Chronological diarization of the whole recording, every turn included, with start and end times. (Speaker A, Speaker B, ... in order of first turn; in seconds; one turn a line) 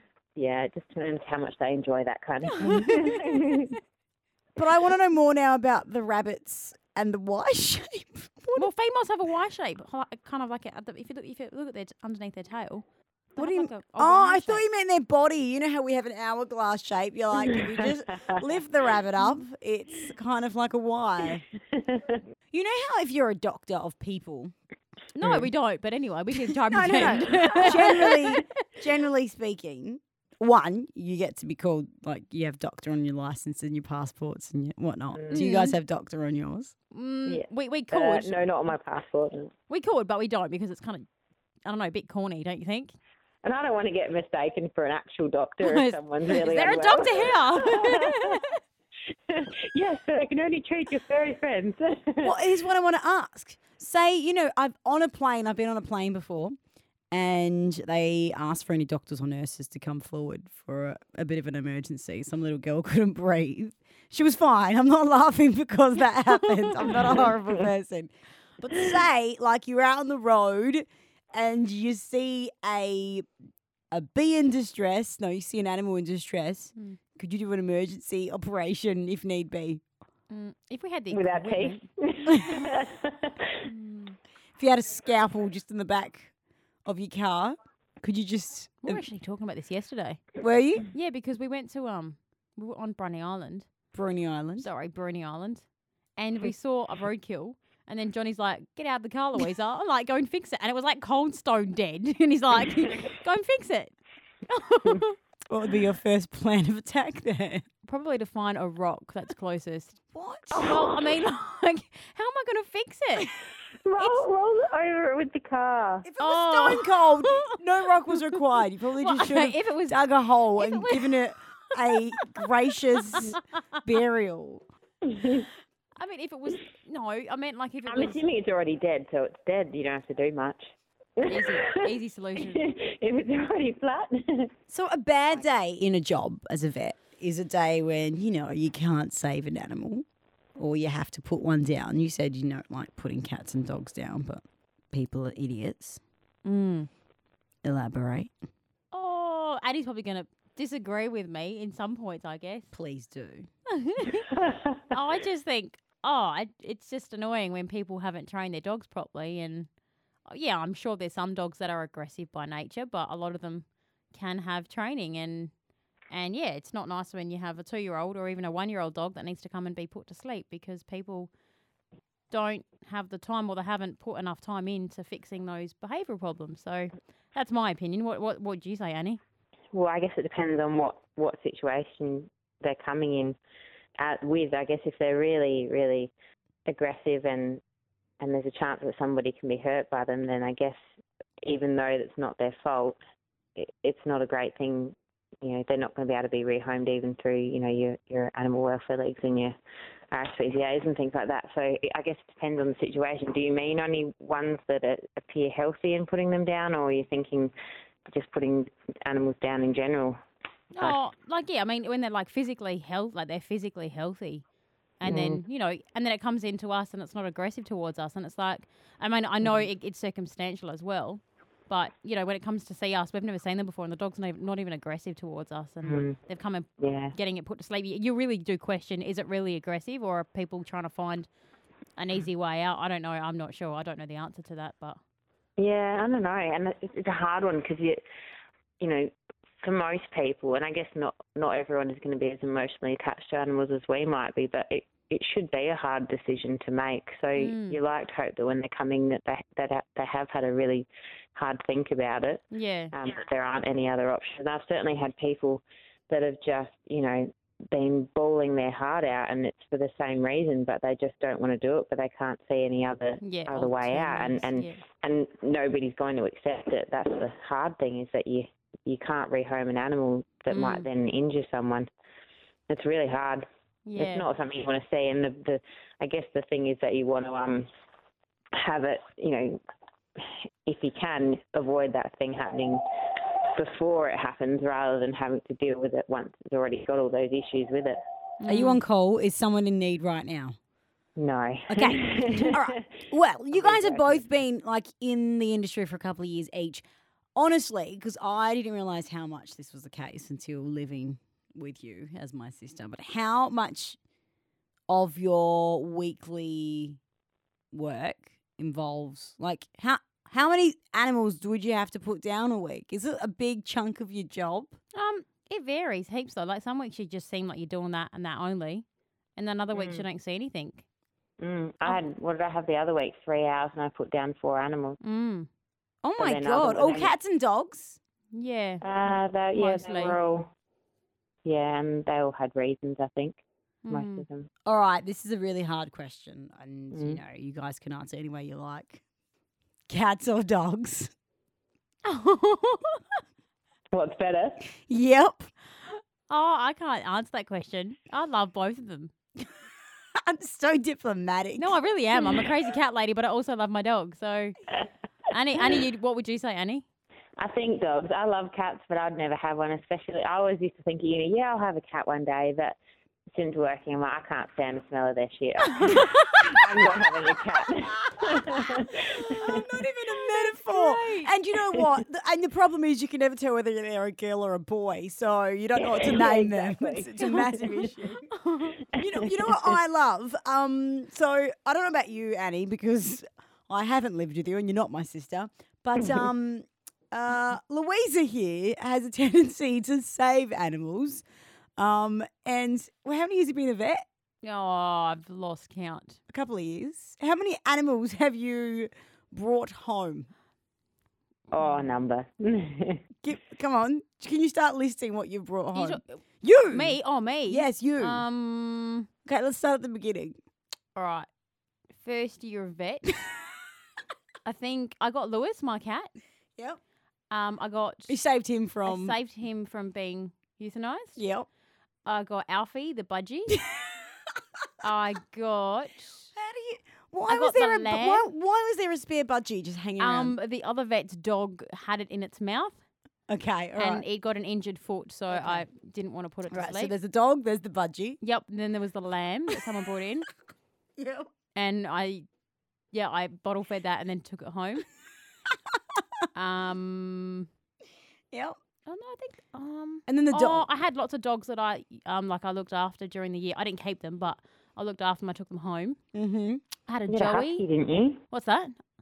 Speaker A: 0.3-3.7
Speaker B: 2.4-3.8
Speaker C: 4.5-8.7
Speaker B: 8.6-14.6
Speaker C: 13.4-21.4
Speaker A: 17.4-17.9
Speaker A: 21.7-22.2
Speaker C: 22.5-24.5
Speaker B: 25.1-28.4
Speaker A: 25.2-25.5
Speaker C: 26.5-36.7
Speaker A: 27.5-28.1
Speaker A: 35.1-35.4
Speaker B: 35.3-35.8
Speaker B: 36.9-38.3
Speaker A: 37.2-39.5
Speaker B: 39.7-41.0
Speaker B: 41.6-42.9
Speaker A: 43.4-48.4
Speaker B: 45.6-48.6
Speaker A: 49.3-52.4
Speaker C: 52.2-56.5
Speaker C: 57.1-73.2
Speaker B: 66.4-66.8
Speaker A: 66.9-67.7
Speaker C: 73.9-79.8
Speaker B: 80.3-81.8
Speaker A: 81.1-83.3
Speaker B: 83.6-84.2
Speaker C: 84.5-86.3
Speaker C: 86.8-89.0
Speaker B: 88.8-90.2
Speaker C: 90.4-90.9
Speaker B: 90.9-93.7
Speaker C: 93.9-94.7
Speaker B: 94.6-95.6
Speaker B: 96.2-105.2
Speaker C: 105.5-107.6
Speaker B: 107.8-110.0
Speaker C: 110.1-110.7
Speaker A: 110.5-111.1
Speaker B: 110.6-113.3
Speaker A: 113.8-116.0
Speaker B: 114.0-114.2
Speaker C: 116.0-124.6
Speaker B: 116.2-117.5
Speaker B: 118.1-118.4
Speaker B: 119.0-120.0
Speaker B: 120.5-121.2
Speaker B: 123.1-123.4
Speaker A: 125.0-125.5
Speaker B: 126.0-128.2
Speaker A: 127.9-130.6
Speaker A: 131.2-131.7
Speaker B: 131.2-132.6
Speaker A: 132.4-134.5
Speaker C: 134.7-140.0
Speaker C: 140.6-146.0
Speaker B: 146.4-146.9
Speaker C: 147.6-148.3
Speaker B: 148.9-152.7
Speaker C: 152.7-153.5
Speaker B: 153.7-154.3
Speaker A: 154.3-154.8
Speaker B: 154.9-159.7
Speaker B: 160.3-165.5
Speaker B: 166.1-171.3
Speaker B: 172.3-179.2
Speaker A: 179.7-183.3
Speaker A: 184.0-186.1
Speaker A: 186.7-187.6
Speaker A: 188.2-190.8
Speaker A: 191.4-193.0
Speaker A: 193.6-199.5
Speaker A: 200.1-207.5
Speaker A: 208.1-210.2
Speaker B: 210.8-214.4
Speaker B: 215.0-231.3
Speaker A: 215.0-215.4
Speaker A: 225.8-226.2
Speaker A: 226.8-227.1
Speaker B: 232.0-235.0
Speaker A: 235.6-238.0
Speaker A: 238.8-252.4
Speaker B: 247.4-247.8
Speaker B: 252.5-252.9
Speaker A: 252.9-271.9
Speaker B: 263.2-264.8
Speaker B: 270.5-270.9
Speaker A: 272.7-273.4
Speaker B: 273.9-274.2
Speaker A: 273.9-277.7
Speaker A: 278.6-279.6
Speaker A: 280.1-282.8
Speaker A: 283.6-288.0
Speaker B: 288.4-288.8
Speaker C: 288.4-290.5
Speaker A: 291.2-292.8
Speaker C: 291.7-296.8
Speaker A: 293.5-294.4
Speaker C: 297.4-304.0
Speaker C: 304.9-307.0
Speaker C: 307.7-314.8
Speaker B: 314.9-318.8
Speaker B: 319.4-320.8
Speaker A: 319.7-320.1
Speaker A: 321.4-325.0
Speaker B: 325.0-325.5
Speaker C: 326.0-328.0
Speaker A: 326.2-327.1
Speaker B: 328.3-328.8
Speaker A: 328.8-330.5
Speaker B: 329.5-330.2
Speaker A: 331.4-333.4
Speaker B: 333.9-334.2
Speaker A: 333.9-334.5
Speaker C: 334.6-339.0
Speaker A: 336.9-337.2
Speaker C: 339.9-341.1
Speaker B: 342.1-343.0
Speaker A: 343.9-344.6
Speaker C: 344.8-345.5
Speaker B: 345.9-349.1
Speaker C: 350.2-351.8
Speaker B: 351.6-354.6
Speaker B: 355.3-356.8
Speaker A: 357.4-362.8
Speaker A: 363.3-369.9
Speaker B: 365.7-366.6
Speaker C: 368.1-378.3
Speaker B: 370.6-371.3
Speaker A: 371.7-372.0
Speaker A: 376.0-377.9
Speaker B: 378.3-378.8
Speaker C: 379.0-391.2
Speaker A: 379.0-379.8
Speaker C: 391.8-394.0
Speaker B: 394.4-396.2
Speaker C: 396.3-400.3
Speaker A: 401.5-403.0
Speaker B: 401.5-402.0
Speaker C: 403.2-408.2
Speaker B: 405.7-406.2
Speaker B: 406.7-409.1
Speaker C: 409.2-410.4
Speaker B: 410.9-411.3
Speaker B: 411.9-413.1
Speaker B: 414.4-416.1
Speaker B: 417.3-418.2
Speaker C: 418.1-419.2
Speaker B: 418.8-421.2
Speaker C: 421.2-421.5
Speaker B: 422.1-423.6
Speaker B: 424.8-426.3
Speaker C: 426.3-430.4
Speaker B: 427.3-428.3
Speaker B: 430.0-432.8
Speaker C: 433.3-434.0
Speaker B: 433.8-436.9
Speaker C: 435.3-435.6
Speaker C: 436.5-438.2
Speaker B: 438.2-440.3
Speaker C: 441.0-441.3
Speaker B: 441.5-442.2
Speaker B: 442.9-444.9
Speaker B: 446.3-447.5
Speaker B: 448.9-456.0
Speaker C: 450.1-450.7
Speaker C: 456.1-456.6
Speaker B: 456.9-457.6
Speaker A: 457.1-458.2
Speaker B: 458.3-458.7